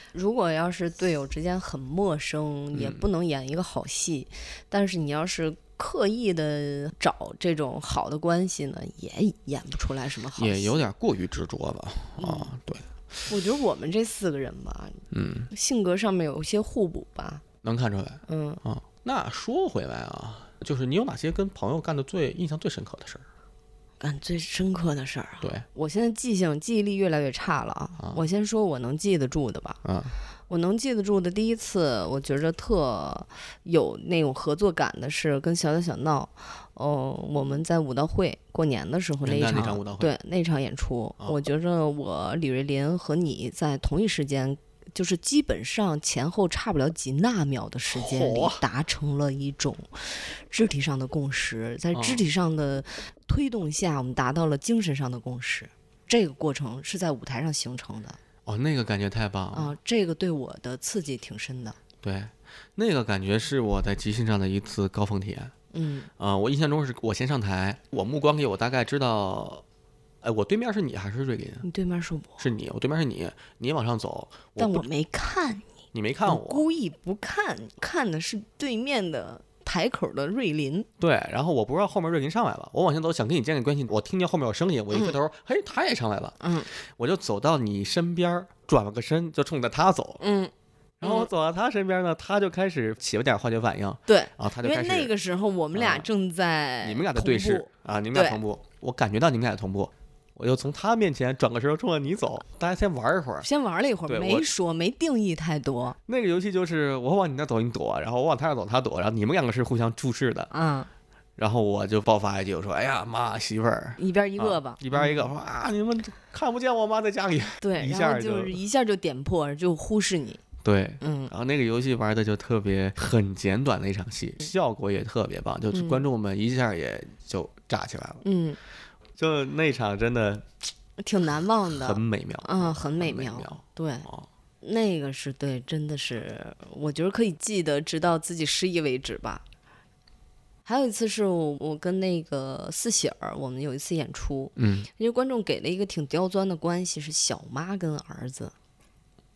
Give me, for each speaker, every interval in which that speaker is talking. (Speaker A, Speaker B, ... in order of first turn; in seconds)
Speaker A: 0.1-10.9, 12.2-12.5, 13.3-17.4, 18.3-18.6, 24.0-29.8, 30.5-58.2, 59.5-61.8, 65.7-66.1, 71.6-72.5, 74.6-75.7, 76.3-80.9, 86.4-86.7, 90.2-91.3, 94.1-98.4, 103.4-106.0, 110.5-110.9, 114.0-115.3, 117.6-120.4, 121.0-121.3, 125.7-126.0, 128.2-128.6, 131.0-134.1, 134.6-139.4, 140.7-148.5
Speaker B: 2.7-3.0, 10.4-12.9, 15.1-15.5, 17.6-23.2, 29.8-30.2, 39.2-40.1, 47.9-48.6, 51.9-52.2, 58.5-59.8, 62.0-65.5, 66.2-69.6, 70.2-71.7, 72.4-74.9, 75.9-76.7, 81.0-90.2, 91.0-95.1, 95.7-96.1, 96.8-103.5, 104.1-104.5, 106.1-110.5, 111.4-118.6, 120.6-128.2, 129.2-130.5, 131.8-134.3, 144.6-144.9